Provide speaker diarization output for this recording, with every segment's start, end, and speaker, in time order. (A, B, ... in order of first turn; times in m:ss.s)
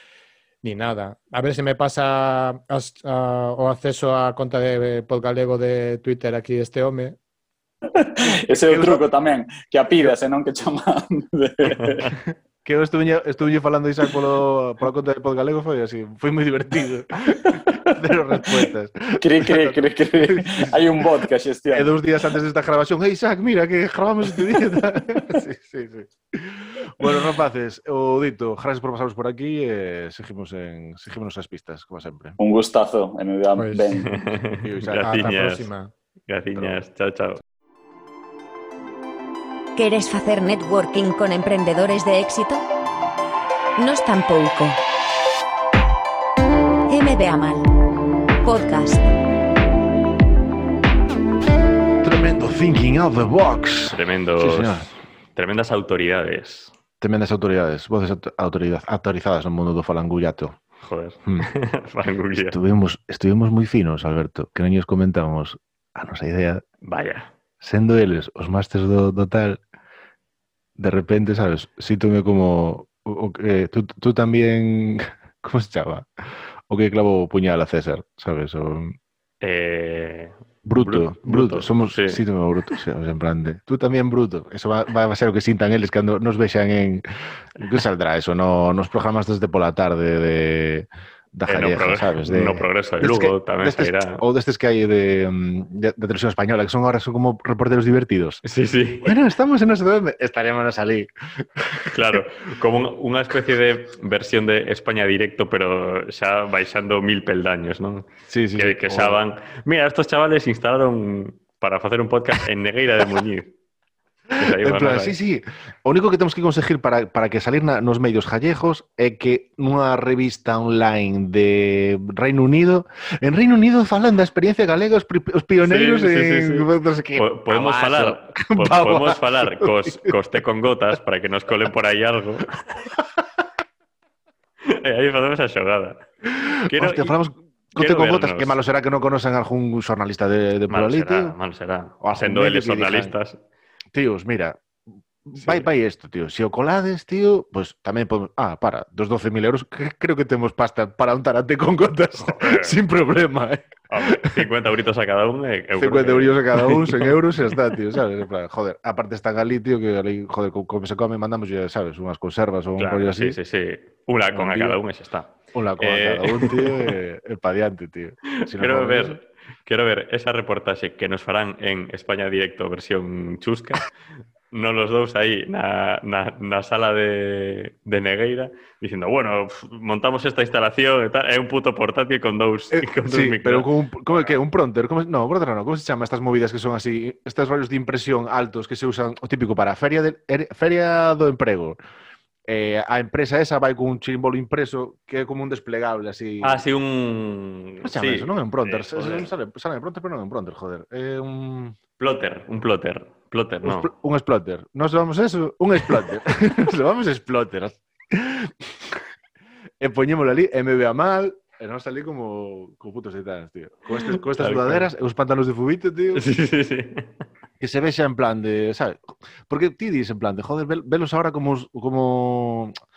0:00.6-0:07.2 A
0:08.0-0:12.2 B
0:08.5-0:09.0 C
0:12.1-0:32.4 C
0:18.4-0:18.7 B
0:19.2-0:21.9 B
0:32.4-0:34.1 B
0:33.6-0:33.9 A
0:34.1-0:35.7 D
0:34.6-0:35.3 C
0:35.0-0:35.9 A
0:36.3-0:37.4 D
0:36.5-0:36.8 C
0:39.8-0:42.6 E
0:43.8-0:44.8 E
0:46.9-0:47.6 E
0:48.4-0:49.0 E
0:52.0-0:54.9 C
0:53.9-0:56.7 D
0:57.0-1:00.6 C
1:00.8-1:02.6 D
1:02.4-1:06.6 C
1:06.9-1:07.3 D
1:07.6-1:09.6 C
1:10.8-1:16.1 C
1:16.7-1:19.0 C
1:19.4-1:22.2 D
1:20.6-1:27.0 C
1:27.6-1:38.4 C
1:31.5-1:34.2 D
1:38.4-1:39.2 D
1:39.0-1:42.2 C
1:41.9-1:48.1 D
1:48.3-1:49.2 C
1:48.6-1:53.5 D
1:54.3-2:10.2 C
1:54.4-1:55.2 D
2:05.6-2:12.6 D
2:14.7-2:16.0 D
2:16.3-2:21.4 C
2:16.7-2:17.2 D
2:17.8-2:18.6 D
2:20.7-2:23.4 D
2:22.0-2:23.2 C
2:23.9-2:24.7 C
2:25.2-2:34.5 C
2:25.4-2:25.7 D
2:32.2-2:32.8 D
2:33.9-2:37.5 D
2:35.8-2:43.4 C
2:42.8-2:46.9 D
2:44.3-2:44.8 C
2:45.5-2:49.2 C
2:48.5-2:53.9 D
2:54.5-3:04.3 D
3:02.7-3:11.8 C
3:12.5-3:16.6 C
3:16.4-3:19.3 D
3:17.8-3:21.8 C
3:22.0-3:23.9 D
3:23.6-3:29.0 C
3:29.8-3:36.3 C
3:34.0-3:34.9 D
3:36.1-3:37.1 D
3:37.6-3:42.8 C